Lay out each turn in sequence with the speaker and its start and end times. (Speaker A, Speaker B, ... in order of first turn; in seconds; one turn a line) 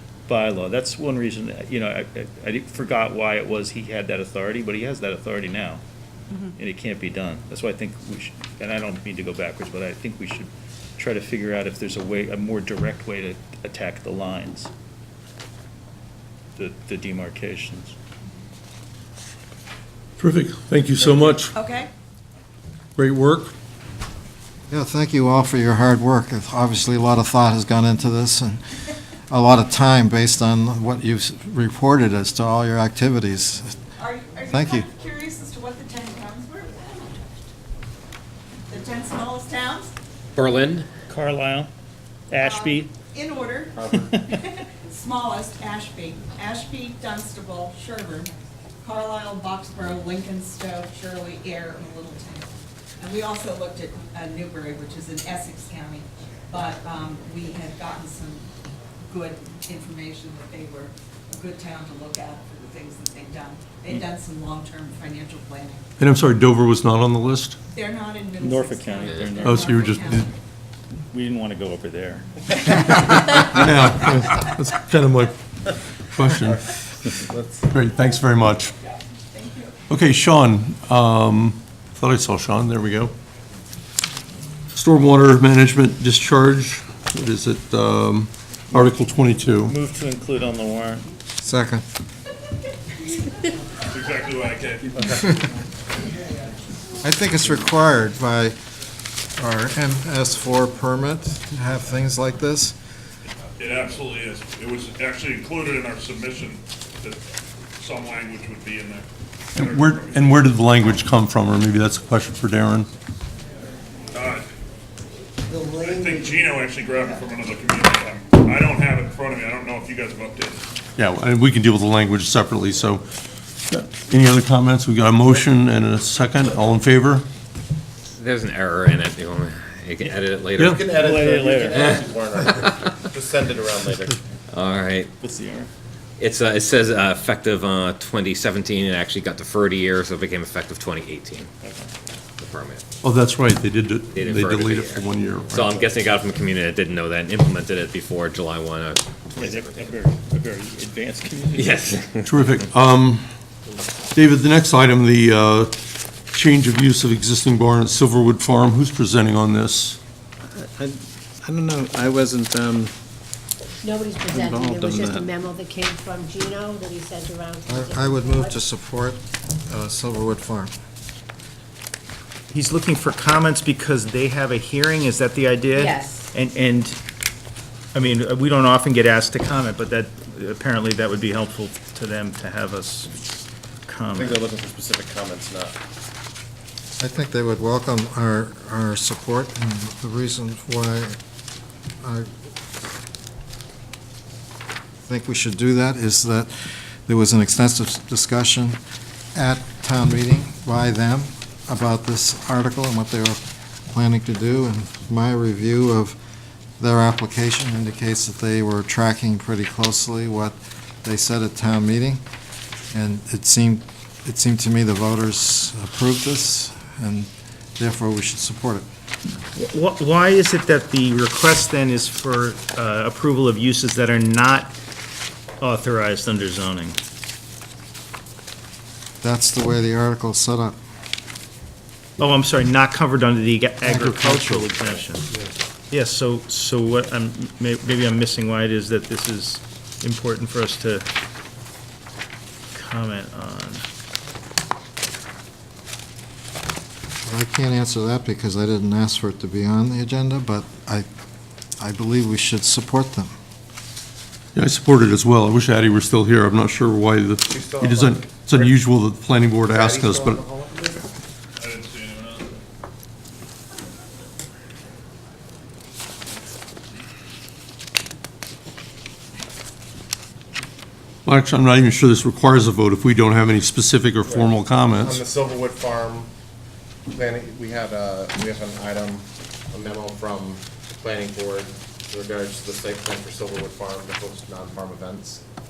Speaker A: 0.3-5.8
Speaker A: 6.5-14.7
Speaker A: 16.6-17.9
Speaker B: 20.2-21.5
Speaker C: 21.6-21.9
Speaker B: 23.0-23.5
Speaker D: 24.7-28.6
Speaker D: 29.3-33.7
Speaker C: 34.0-37.5
Speaker D: 34.5-34.9
Speaker C: 38.7-39.9
Speaker E: 40.4-40.9
Speaker A: 41.1-41.7
Speaker A: 42.3-42.9
Speaker C: 42.4-48.3
Speaker F: 43.8-44.1
Speaker C: 48.8-58.5
Speaker C: 59.1-65.8
Speaker B: 66.0-67.6
Speaker C: 67.7-70.3
Speaker A: 68.4-69.9
Speaker B: 69.4-70.3
Speaker A: 71.1-72.3
Speaker C: 72.8-73.4
Speaker B: 73.5-75.3
Speaker B: 76.1-76.6
Speaker F: 76.3-77.7
Speaker B: 77.7-78.7
Speaker C: 79.3-79.7
Speaker B: 79.9-83.1
Speaker B: 84.7-89.7
Speaker A: 89.6-91.1
Speaker D: 91.4-91.8
Speaker G: 93.9-95.2
Speaker D: 97.0-98.5
Speaker D: 99.4-102.8
Speaker G: 103.4-110.4
Speaker B: 109.5-112.9
Speaker G: 114.1-114.5
Speaker G: 115.8-120.6
Speaker B: 121.0-123.1
Speaker B: 123.7-127.2
Speaker E: 128.1-130.8
Speaker F: 130.6-134.2
Speaker A: 130.9-132.0
Speaker E: 134.5-135.1
Speaker A: 135.2-135.7
Speaker E: 136.2-141.5
Speaker A: 141.6-141.9
Speaker E: 142.4-142.8
Speaker B: 143.0-146.0
Speaker E: 144.1-149.9
Speaker A: 149.4-152.0
Speaker E: 151.6-152.5
Speaker B: 152.2-153.3
Speaker B: 154.2-155.7
Speaker B: 156.3-160.0
Speaker H: 160.5-162.9
Speaker I: 163.8-168.6
Speaker H: 164.3-165.3
Speaker D: 167.7-170.7
Speaker A: 172.5-177.0
Speaker I: 175.8-176.3
Speaker A: 177.9-184.4
Speaker F: 184.2-185.8
Speaker D: 187.0-191.2
Speaker D: 192.0-192.3
Speaker D: 195.1-196.5
Speaker D: 197.1-198.8
Speaker D: 199.3-203.4
Speaker D: 203.9-206.2
Speaker D: 206.8-212.2
Speaker D: 212.9-218.8
Speaker A: 219.6-224.8
Speaker A: 225.6-227.0
Speaker D: 229.2-230.8
Speaker A: 232.2-235.3
Speaker A: 235.9-241.1
Speaker A: 242.7-243.9
Speaker D: 247.2-251.1
Speaker D: 251.8-253.3
Speaker B: 254.6-260.4
Speaker F: 257.5-258.7
Speaker F: 259.7-261.1
Speaker G: 261.6-262.6
Speaker B: 271.2-275.2
Speaker F: 274.2-276.3
Speaker F: 277.1-285.4